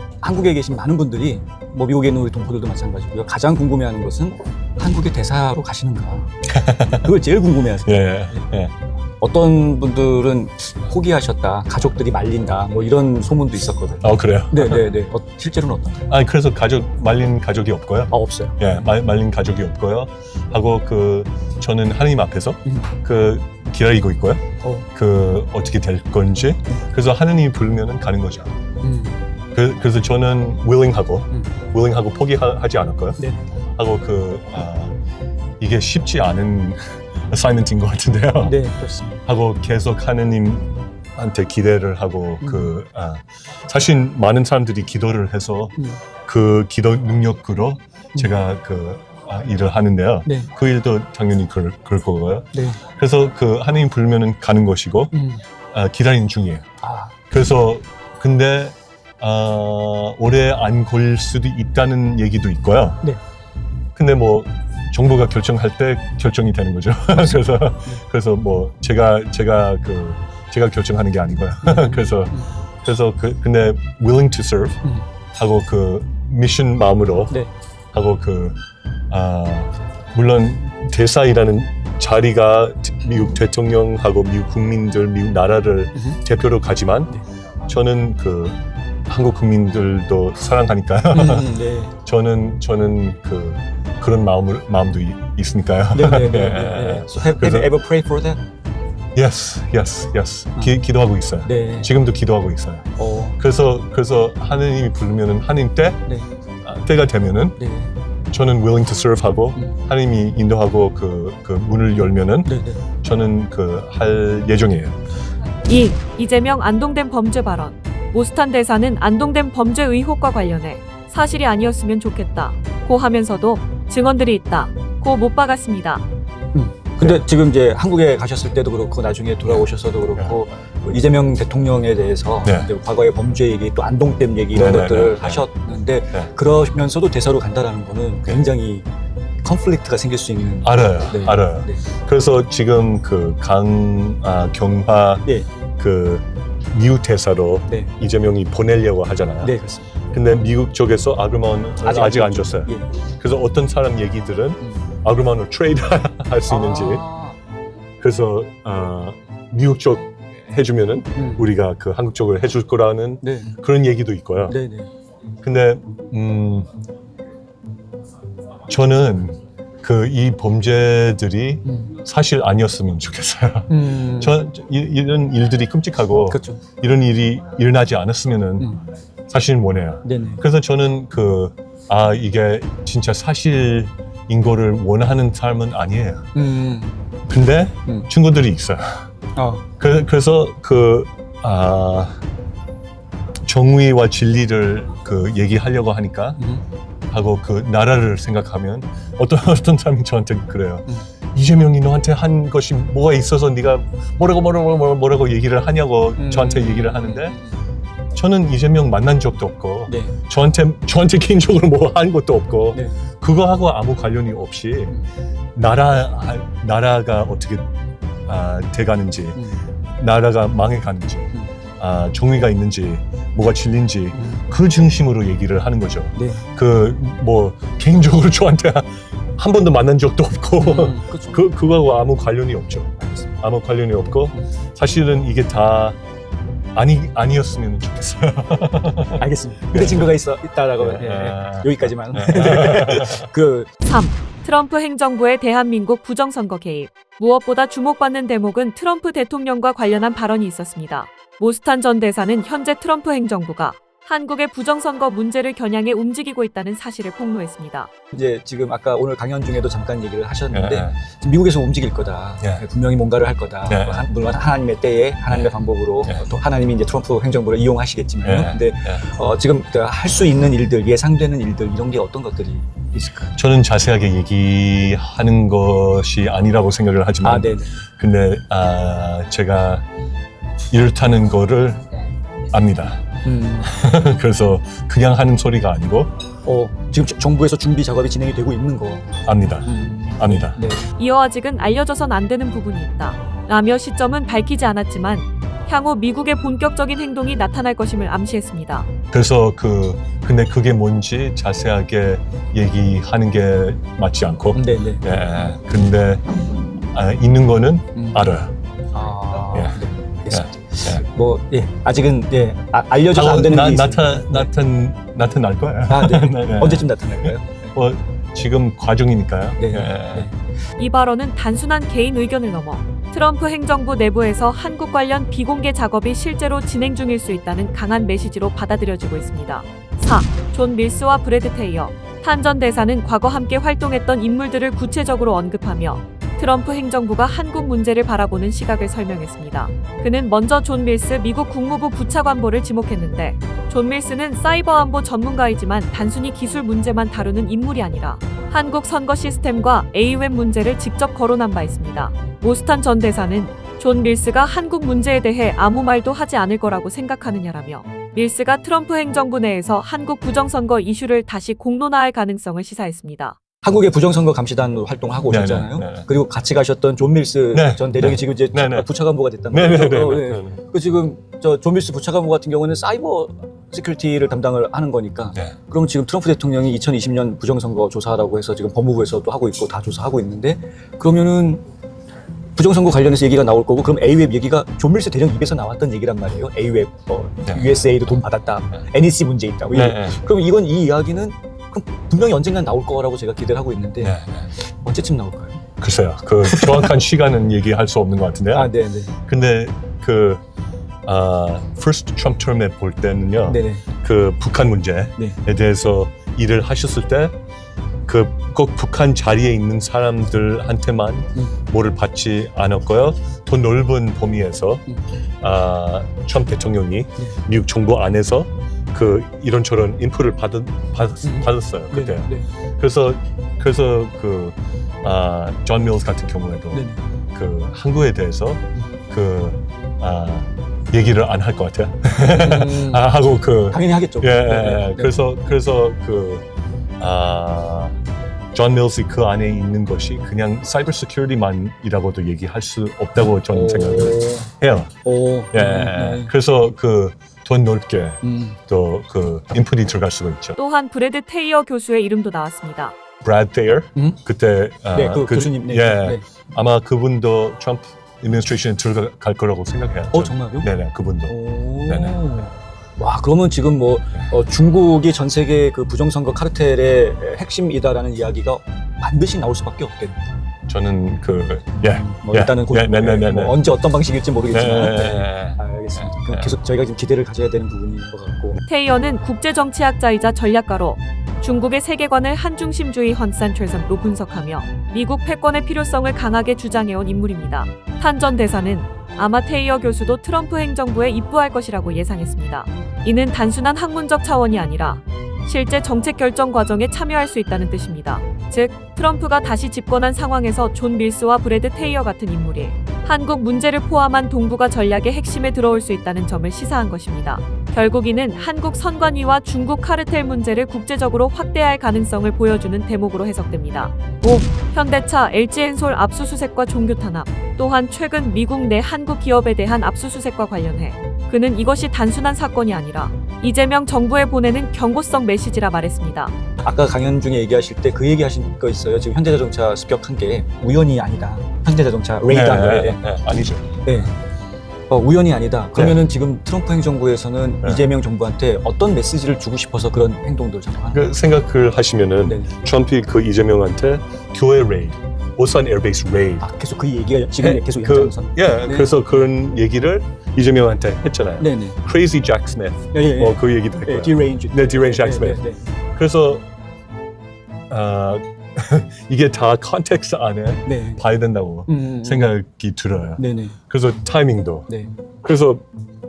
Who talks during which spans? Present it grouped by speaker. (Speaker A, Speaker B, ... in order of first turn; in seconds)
Speaker A: 0.2-6.3, 7.0-8.5, 9.2-16.1, 18.1-18.9, 28.8-29.2, 33.2-33.4, 38.4-39.2, 42.4-42.7, 50.3-50.5, 52.5-52.8, 55.1-55.4, 56.8-57.1, 71.6-72.5, 91.1-92.0, 95.9-98.4, 101.5-101.9, 103.0-103.4, 107.6-107.9, 112.5-112.8, 126.5-138.9, 139.4-141.9, 149.4-149.9, 151.8-152.9, 156.5-157.4, 161.2-161.4, 163.2-163.6, 164.5-164.9, 171.7-171.9, 173.7-174.4, 176.3-176.6, 180.0-180.4, 186.3-187.2, 189.4-189.7, 206.2-207.6, 209.9-210.2, 224.2-224.4, 226.2-226.5, 230.6-231.4, 233.0-233.4, 239.2-243.7, 258.1-273.3, 277.2-277.7, 283.2-283.7, 286.4-290.9, 304.6-305.5, 308.0-308.3, 308.9-314.5, 315.9-317.8, 319.6-320.4, 363.6-381.6, 382.6-395.6, 396.5-396.9, 398.5-399.1, 403.5-403.9, 421.2-422.5, 426.7-427.0, 432.2-433.1, 433.7-435.2, 443.5-444.5, 445.1-446.3, 448.2-448.6, 454.9-456.2, 460.1-460.7, 461.3-470.2, 471.8-478.6, 526.6-533.0, 533.9-534.1, 534.9-541.0, 542.2-542.5, 546.4-549.2, 551.4-551.8, 552.9-555.6, 560.7-561.0, 561.7-562.3, 563.2-563.6
Speaker B: 6.5-7.1, 7.9-8.7, 14.0-14.9, 16.1-28.6, 29.6-33.2, 33.8-34.9, 35.6-38.7, 39.3-55.2, 55.7-56.6, 57.3-63.0, 64.0-74.8, 75.4-77.4, 77.9-78.6, 79.1-87.1, 87.7-97.7, 99.2-106.1, 106.6-107.6, 108.3-115.0, 129.5-130.4, 132.4-132.7, 134.5-135.4, 140.6-149.6, 150.1-157.0, 158.0-164.6, 165.4-166.7, 168.7-178.7, 179.3-186.3, 187.3-189.1, 189.8-192.2, 193.4-196.4, 197.1-207.4, 208.1-215.0, 215.6-217.7, 218.3-219.4, 220.0-236.0, 236.8-240.1, 240.8-243.3, 260.5-261.0, 263.7-264.1, 268.2-269.0, 273.4-279.9, 280.7-281.8, 282.5-286.1, 289.2-290.6, 299.1-308.5, 309.5-311.0, 313.1-320.3, 365.3-366.1, 367.5-368.9, 369.5-370.6, 387.4-387.9, 389.7-390.2, 394.0-394.5, 395.8-398.7, 399.3-400.4, 401.1-407.4, 408.1-414.9, 415.4-436.4, 437.0-438.0, 438.5-444.9, 445.5-450.6, 453.2-462.5, 470.7-473.6, 474.5-476.6, 532.3-533.8, 535.8-536.0, 537.6-537.9, 540.9-546.5, 547.4-556.5, 557.7-564.7, 565.2-565.6
Speaker C: 115.7-126.0, 243.8-257.9, 291.0-298.9, 320.8-363.4, 450.6-452.9, 478.7-526.3